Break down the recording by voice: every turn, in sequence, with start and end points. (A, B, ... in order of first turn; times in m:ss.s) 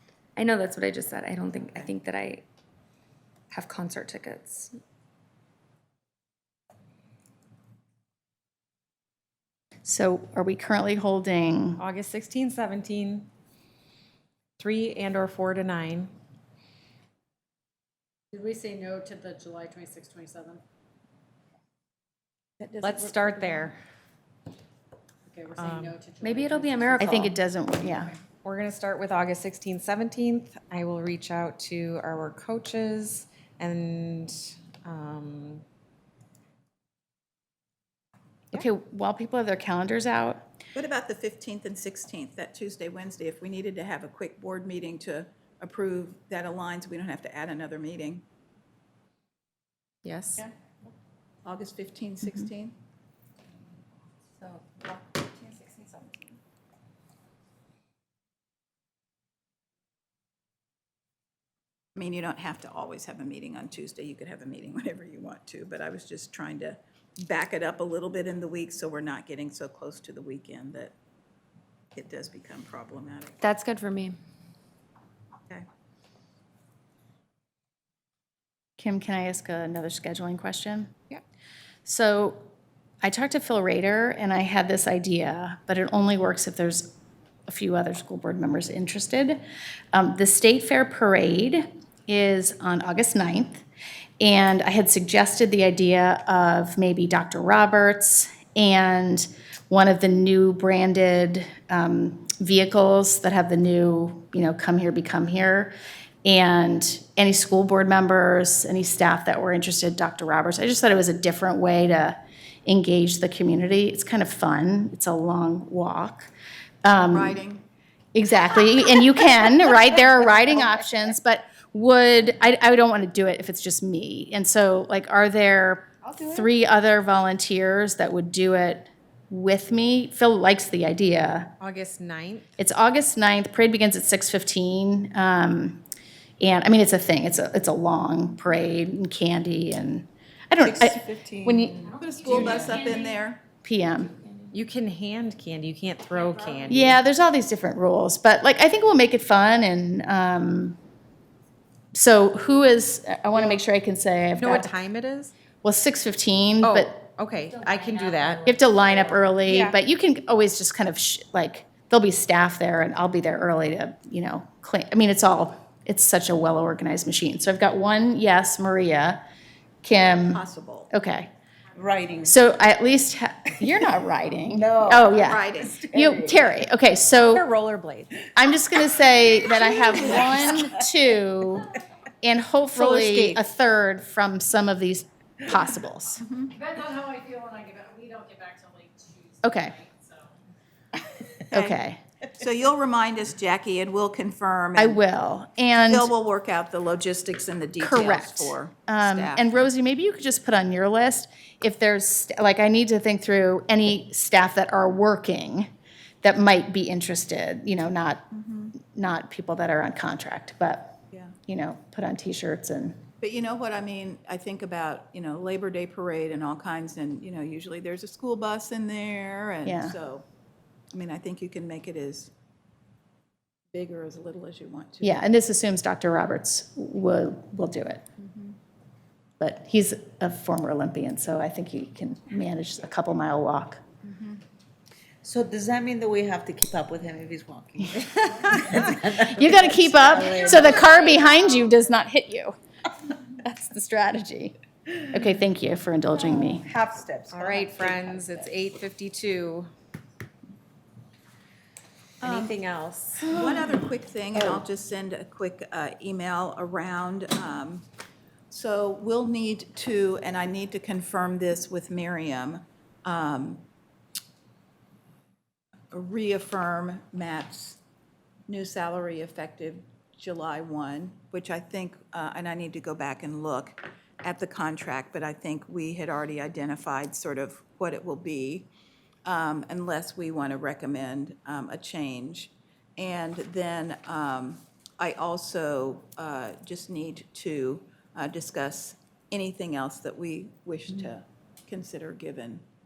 0:00.4-0:02.4 A
0:03.5-0:04.8 A
0:09.8-0:11.8 B
0:11.8-0:13.3 C
0:14.6-0:16.1 C
0:18.3-0:20.6 D
0:22.6-0:22.9 E
0:22.8-0:23.8 C
0:25.3-0:27.1 D
0:25.6-0:26.0 C
0:26.2-0:27.4 A
0:27.0-0:28.2 B
0:28.4-0:35.6 C
0:38.5-0:40.5 B
0:40.8-0:48.2 E
0:50.0-0:50.4 C
0:51.4-0:52.8 E
0:54.4-0:56.4 A
1:02.0-1:11.0 E
1:11.9-1:13.4 E
1:13.4-1:14.2 A
1:18.8-1:21.0 B
1:21.8-1:22.5 B
1:23.0-1:26.9 B
1:27.5-1:29.4 B
1:29.9-1:33.6 B
1:34.2-1:45.7 B
1:46.2-1:56.3 B
1:56.8-1:57.4 B
1:57.0-1:57.6 E
1:58.1-2:11.5 B
2:11.6-2:12.5 C
2:12.6-2:15.8 B
2:16.4-2:22.3 B
2:20.6-2:22.8 F
2:21.9-2:23.4 E
2:22.4-2:23.2 A
2:23.6-2:24.1 B
2:24.5-2:27.0 C
2:26.7-2:30.8 B
2:31.9-2:34.8 B
2:34.4-2:35.4 C
2:35.6-2:37.0 B
2:36.6-2:38.4 C
2:37.4-2:39.6 A
2:38.4-2:49.2 B
2:39.5-2:39.8 C
2:49.8-2:51.3 B
2:49.9-2:50.9 E
2:51.7-2:52.3 F
2:52.2-2:57.4 B
2:54.5-2:56.6 F
2:55.2-2:55.8 E
2:57.2-2:58.1 C
2:58.4-3:06.2 B
2:59.7-3:00.6 F
3:02.8-3:03.4 C
3:06.5-3:10.3 D
3:09.4-3:09.8 B
3:11.5-3:12.0 B
3:12.4-3:15.0 E
3:14.8-3:16.1 B
3:15.8-3:19.7 E
3:17.8-3:25.7 B
3:26.2-3:33.0 B
3:28.3-3:28.7 E
3:33.2-3:40.2 E
3:39.6-3:40.0 B
3:40.9-3:42.3 E
3:43.7-3:45.2 E
3:45.0-3:48.0 B
3:48.2-3:48.6 E
3:49.4-3:53.8 B
3:54.0-3:54.4 E
3:55.2-4:01.0 F
3:58.3-3:58.6 B
3:59.2-4:02.6 B
4:03.3-4:06.7 B
4:06.2-4:08.5 F
4:07.3-4:09.7 C
4:12.2-4:12.6 E
4:12.2-4:13.3 C
4:13.3-4:13.6 F
4:13.4-4:17.9 E
4:14.4-4:14.6 F
4:18.5-4:23.7 E
4:25.9-4:27.8 E
4:28.5-4:38.7 E
4:39.2-4:52.6 E